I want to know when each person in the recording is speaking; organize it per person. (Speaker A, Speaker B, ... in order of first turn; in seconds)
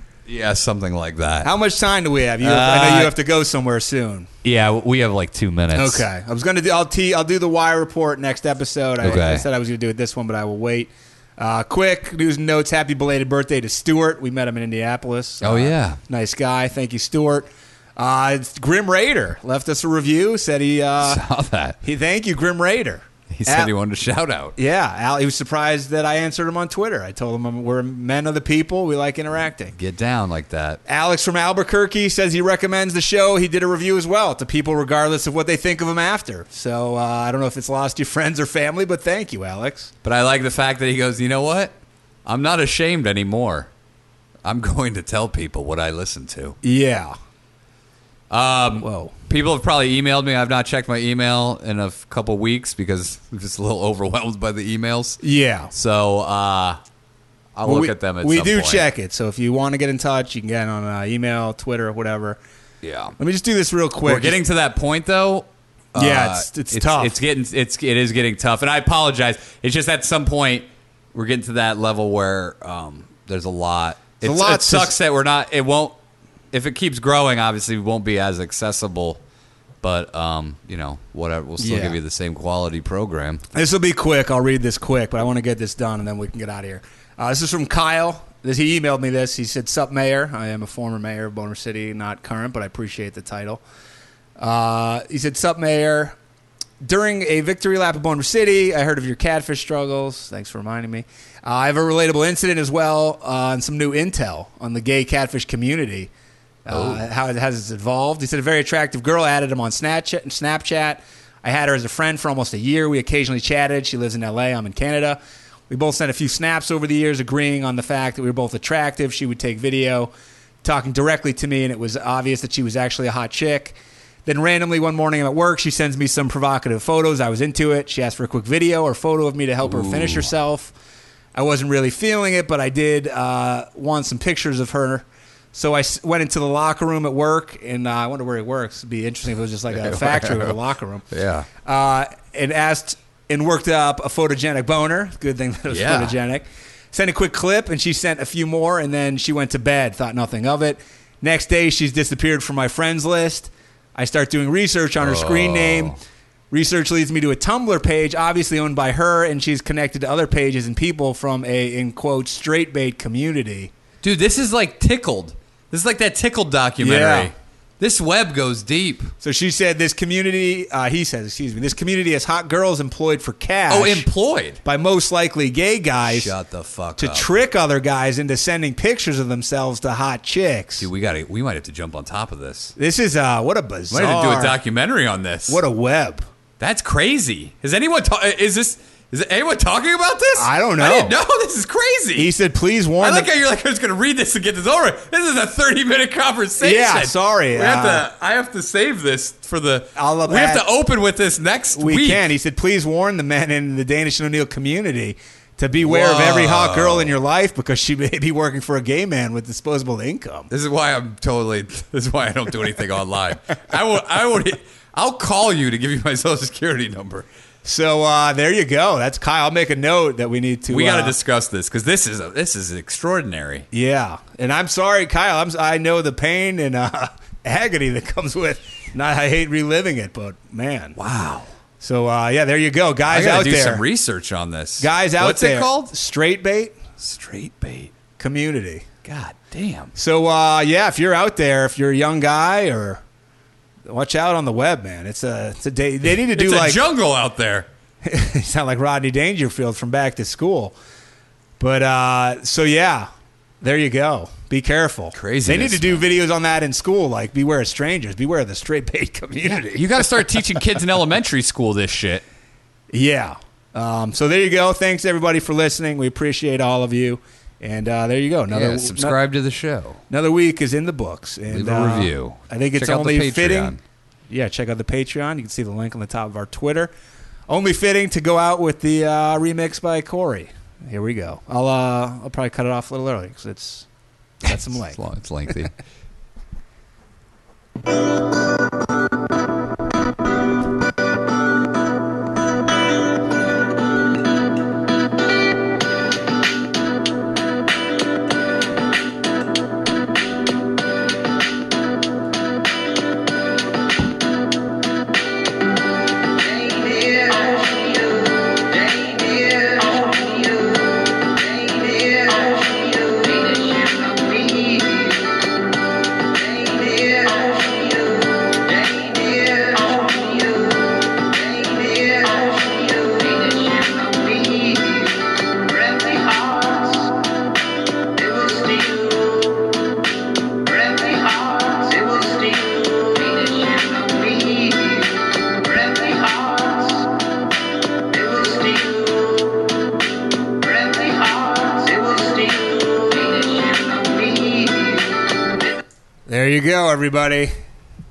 Speaker A: 0.3-1.5, 2.4-3.1, 4.4-6.1, 9.0-9.4, 15.4-16.0, 21.0-21.8, 23.3-24.6, 29.7-30.8, 40.0-41.8, 42.3-43.7, 44.5-46.6, 48.3-55.2, 55.7-56.8, 57.6-58.9, 62.8-63.1, 64.0-76.0, 76.5-79.2, 79.8-83.4, 106.7-107.0, 129.6-130.3, 139.7-140.6, 141.1-141.5, 145.7-146.2, 155.0-156.0, 164.0-169.1, 173.7-174.6, 176.0-177.3, 180.8-182.8, 183.9-185.6, 186.6-192.3, 193.0-202.2, 205.8-207.2, 210.5-217.3, 220.7-223.7, 231.0-231.5, 233.1-235.9, 237.0-237.9, 239.0-239.9, 246.3-247.7, 255.1-256.1, 259.7-262.2, 268.5-270.0, 271.5-273.8, 284.5-285.8
Speaker B: 1.4-4.3, 5.8-21.2, 21.8-23.7, 24.6-29.8, 30.9-39.9, 46.6-47.1, 48.8-49.1, 55.2-55.7, 57.6-62.4, 63.2-64.4, 66.0-67.2, 74.2-74.9, 81.6-82.0, 83.5-93.6, 94.4-96.2, 96.8-106.1, 106.7-115.2, 115.7-120.1, 120.6-130.7, 131.3-141.1, 141.6-156.0, 156.5-163.7, 166.8-167.3, 169.2-174.1, 174.6-176.3, 177.0-180.9, 182.8-184.6, 185.5-186.3, 190.3-191.2, 192.2-193.3, 196.6-198.1, 200.0-200.7, 201.7-210.5, 217.6-221.2, 223.7-231.0, 231.8-233.8, 234.8-236.8, 238.2-238.9, 239.9-243.0, 243.9-246.8, 248.0-250.8, 251.6-253.1, 253.6-260.1, 262.9-269.2, 270.1-273.8, 274.3-276.9, 277.5-283.9, 284.4-285.0, 346.3-347.5